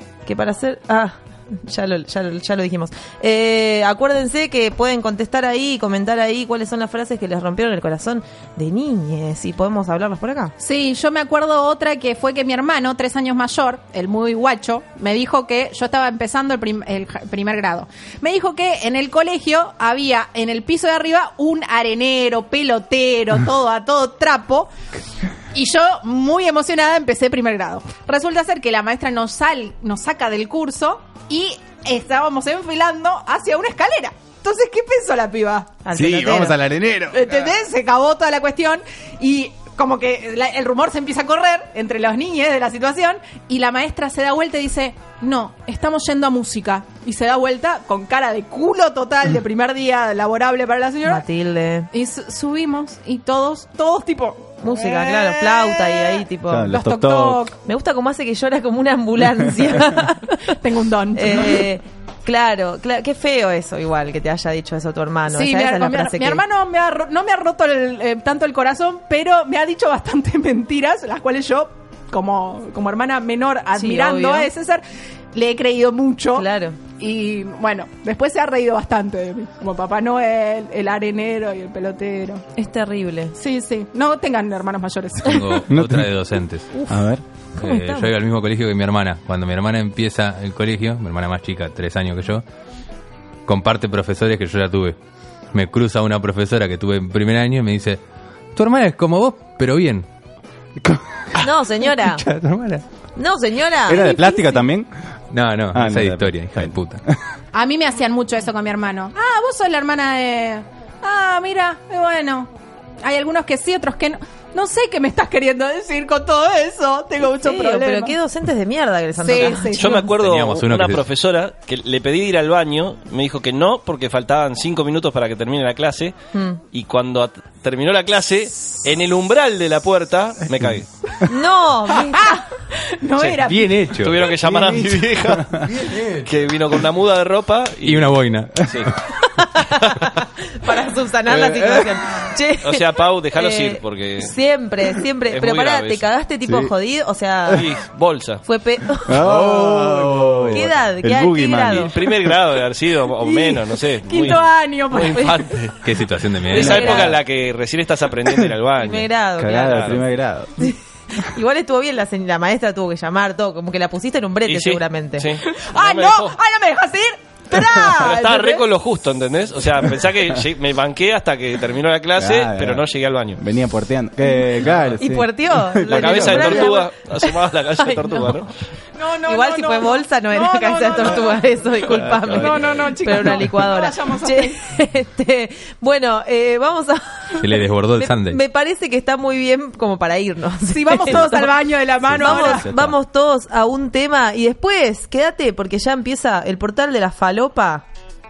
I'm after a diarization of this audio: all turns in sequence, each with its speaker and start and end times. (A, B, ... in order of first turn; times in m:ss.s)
0:00.2-0:10.5 A
0:10.6-0:24.7 B
0:25.5-0:35.7 B
0:35.8-0:36.6 A
0:35.9-0:37.5 C
0:37.1-0:51.2 B
0:51.0-0:51.9 A
0:51.9-0:57.6 B
0:54.6-0:56.8 A
0:56.5-0:57.4 C
0:57.6-1:00.4 A
1:00.4-1:01.7 B
1:01.2-1:06.4 A
1:05.3-1:14.8 B
1:13.8-1:14.5 A
1:15.3-1:22.4 B
1:16.3-1:16.8 A
1:22.6-1:23.3 A
1:23.4-1:25.6 B
1:25.2-1:26.7 D
1:25.7-1:26.1 C
1:26.7-1:28.1 A
1:26.9-1:27.2 C
1:27.6-1:32.4 D
1:33.5-1:35.0 D
1:35.5-1:38.0 D
1:38.6-1:40.1 D
1:40.8-1:41.4 C
1:41.4-1:42.2 A
1:42.1-1:42.8 D
1:43.2-1:44.6 A
1:43.9-1:44.9 C
1:45.3-1:47.0 D
1:45.7-1:47.2 C
1:47.5-1:52.5 B
1:53.0-1:58.2 B
1:57.4-2:00.1 A
1:59.2-2:00.1 B
1:59.6-2:06.2 E
1:59.8-2:01.1 D
2:06.3-2:06.6 A
2:06.7-2:10.9 E
2:11.2-2:12.4 A
2:12.0-2:13.7 B
2:13.2-2:15.5 E
2:13.5-2:14.4 D
2:14.4-2:15.7 C
2:15.6-2:16.4 D
2:16.2-2:18.9 E
2:17.8-2:19.0 D
2:19.2-2:27.7 A
2:21.3-2:22.0 D
2:22.6-2:24.4 E
2:25.2-2:26.1 E
2:26.5-2:26.7 C
2:27.5-2:28.4 E
2:28.4-2:29.3 A
2:29.1-2:32.3 C
2:29.2-2:30.5 D
2:30.5-2:32.0 A
2:31.7-2:35.9 E
2:33.2-2:35.5 B
2:35.8-2:37.1 D
2:36.5-2:40.1 E
2:36.5-2:37.2 A
2:36.6-2:37.0 C
2:38.7-2:40.0 A
2:39.4-2:40.7 C
2:40.6-2:45.3 A
2:44.4-2:46.4 E
2:45.4-2:48.6 B
2:48.0-2:53.4 E
2:52.2-2:56.8 C
2:54.7-2:55.0 E
2:55.0-2:58.5 A
2:55.9-2:58.5 E
2:59.0-3:04.6 B
2:59.2-3:11.6 A
3:02.2-3:03.3 C
3:07.4-3:08.4 D
3:10.7-3:12.7 B
3:12.0-3:13.0 C
3:12.2-3:17.8 A